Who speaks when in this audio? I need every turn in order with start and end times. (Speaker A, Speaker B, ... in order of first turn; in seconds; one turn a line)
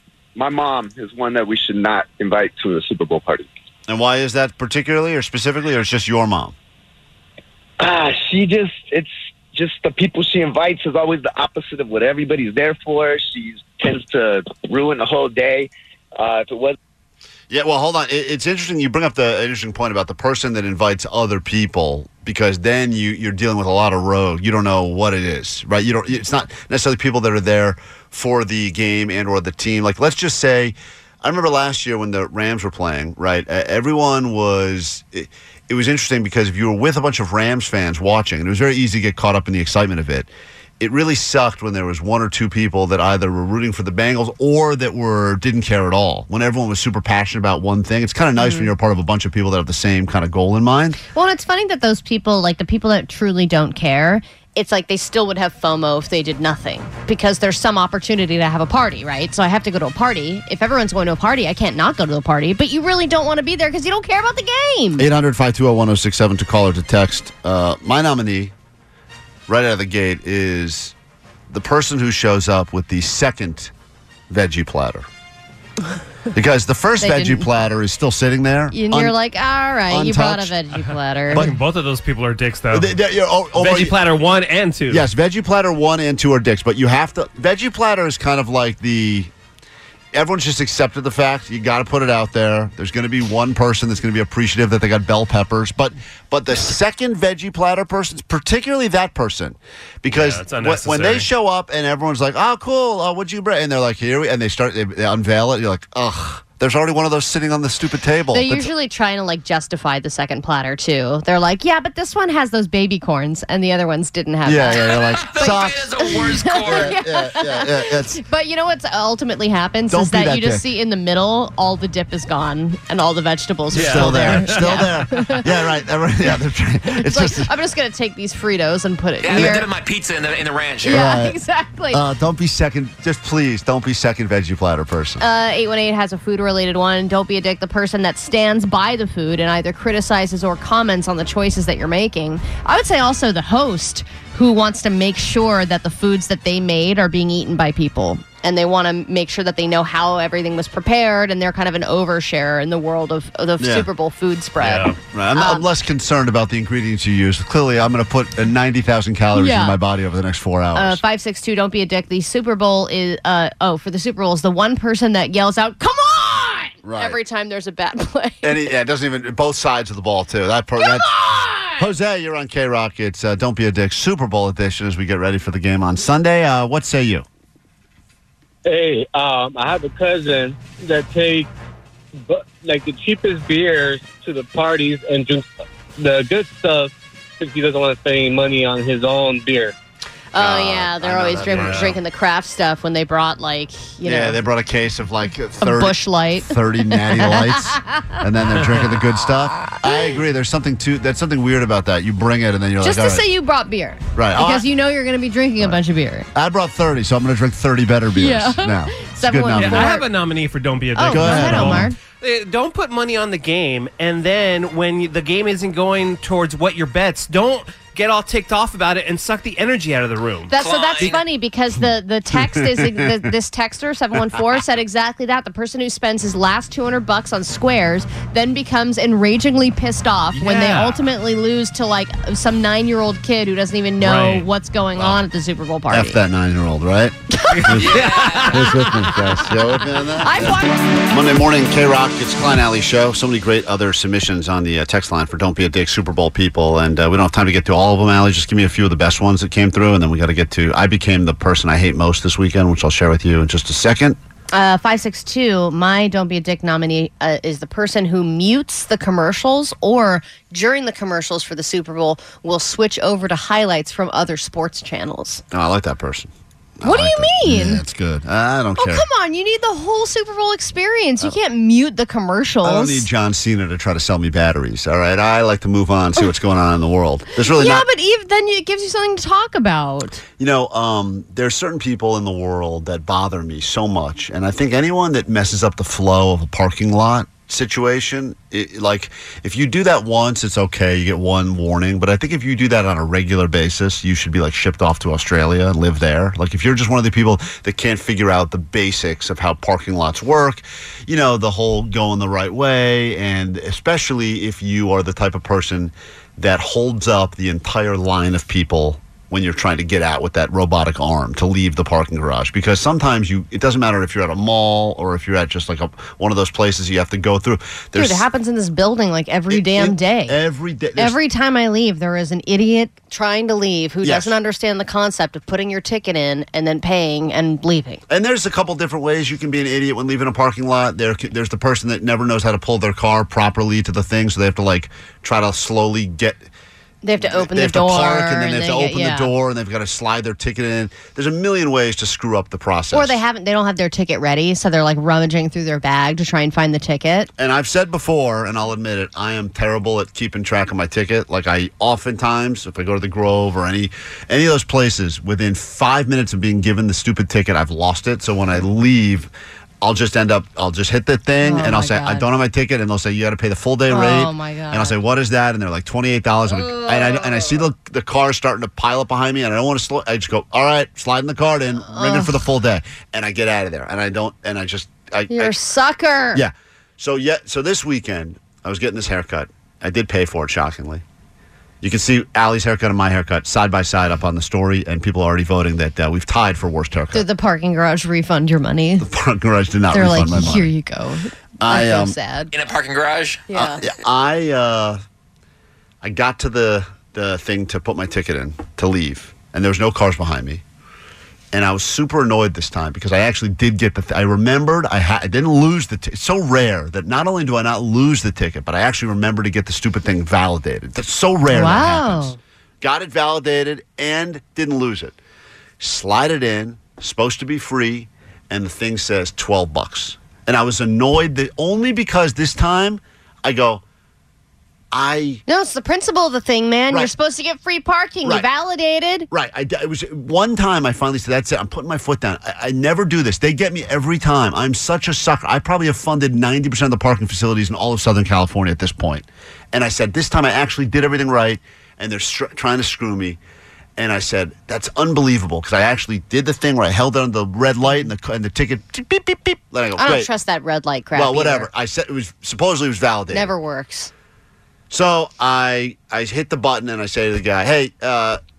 Speaker A: 0.4-3.5
Speaker B: 3.9-6.5
Speaker A: 7.8-16.8
Speaker B: 17.5-51.0
Speaker C: 48.4-48.7
Speaker C: 51.1-65.1
Speaker B: 65.0-68.5
Speaker B: 69.5-70.9
Speaker B: 71.5-73.7
Speaker B: 74.3-75.1
Speaker B: 76.3-79.2
Speaker C: 77.0-77.5
Speaker C: 78.7-81.5
Speaker B: 79.9-80.5
Speaker D: 81.3-82.9
Speaker B: 81.3-81.6
Speaker B: 82.7-84.0
Speaker D: 83.6-85.1
Speaker B: 84.9-89.3
Speaker B: 90.1-108.7
Speaker D: 100.1-101.3
Speaker C: 108.3-125.5
Speaker B: 114.5-118.2
Speaker E: 114.9-116.9
Speaker B: 119.9-120.6
Speaker B: 123.7-127.5
Speaker D: 123.8-124.8
Speaker C: 127.0-129.7
Speaker E: 129.2-131.0
Speaker B: 129.3-129.6
Speaker B: 130.8-131.4
Speaker C: 130.8-132.0
Speaker B: 131.9-135.2
Speaker C: 135.2-155.6
Speaker B: 153.6-153.9
Speaker D: 154.6-155.0
Speaker B: 155.1-161.0
Speaker C: 159.3-159.8
Speaker C: 160.8-168.5
Speaker B: 166.8-167.2
Speaker B: 168.4-171.1
Speaker C: 170.8-171.9
Speaker B: 171.8-177.2
Speaker F: 178.7-181.5
Speaker F: 182.3-189.7
Speaker C: 190.3-194.4
Speaker B: 190.4-192.0
Speaker D: 191.4-192.0
Speaker B: 194.1-203.2
Speaker C: 195.6-198.1
Speaker C: 199.7-200.1
Speaker C: 202.8-206.3
Speaker B: 204.2-204.7
Speaker B: 206.3-210.0
Speaker C: 208.2-210.1
Speaker D: 209.6-220.6
Speaker C: 210.9-212.0
Speaker B: 211.1-211.9
Speaker C: 220.5-236.2
Speaker E: 220.6-221.2
Speaker B: 222.3-223.0
Speaker D: 230.3-231.0
Speaker D: 234.0-234.5
Speaker B: 235.9-254.2
Speaker D: 237.5-239.1
Speaker E: 237.9-238.5
Speaker C: 240.2-241.0
Speaker C: 254.5-265.4
Speaker B: 265.5-269.0
Speaker C: 266.9-267.8
Speaker C: 268.8-273.1
Speaker B: 272.6-277.9
Speaker C: 277.5-280.2
Speaker B: 280.4-318.2
Speaker C: 317.9-320.4
Speaker B: 319.5-321.2
Speaker C: 321.0-328.0
Speaker B: 324.0-324.4
Speaker B: 328.1-336.5
Speaker C: 337.0-339.3
Speaker B: 337.2-343.2
Speaker C: 342.9-347.3
Speaker B: 347.4-375.5
Speaker C: 361.4-362.3
Speaker C: 363.9-365.0
Speaker C: 371.9-372.4
Speaker C: 375.3-376.4
Speaker B: 376.3-381.0
Speaker B: 381.8-387.2
Speaker C: 387.1-389.1
Speaker B: 389.0-390.7
Speaker C: 389.9-392.5
Speaker B: 391.6-392.1
Speaker E: 392.5-393.4
Speaker C: 393.5-393.8
Speaker B: 393.5-395.0
Speaker B: 396.0-400.6
Speaker B: 401.5-415.2
Speaker C: 411.5-412.4
Speaker B: 415.8-423.8
Speaker B: 424.9-425.4
Speaker C: 425.5-429.3
Speaker B: 429.3-443.4
Speaker B: 444.0-450.3
Speaker C: 450.0-451.7
Speaker B: 451.1-453.5
Speaker C: 453.3-454.1
Speaker B: 454.9-458.4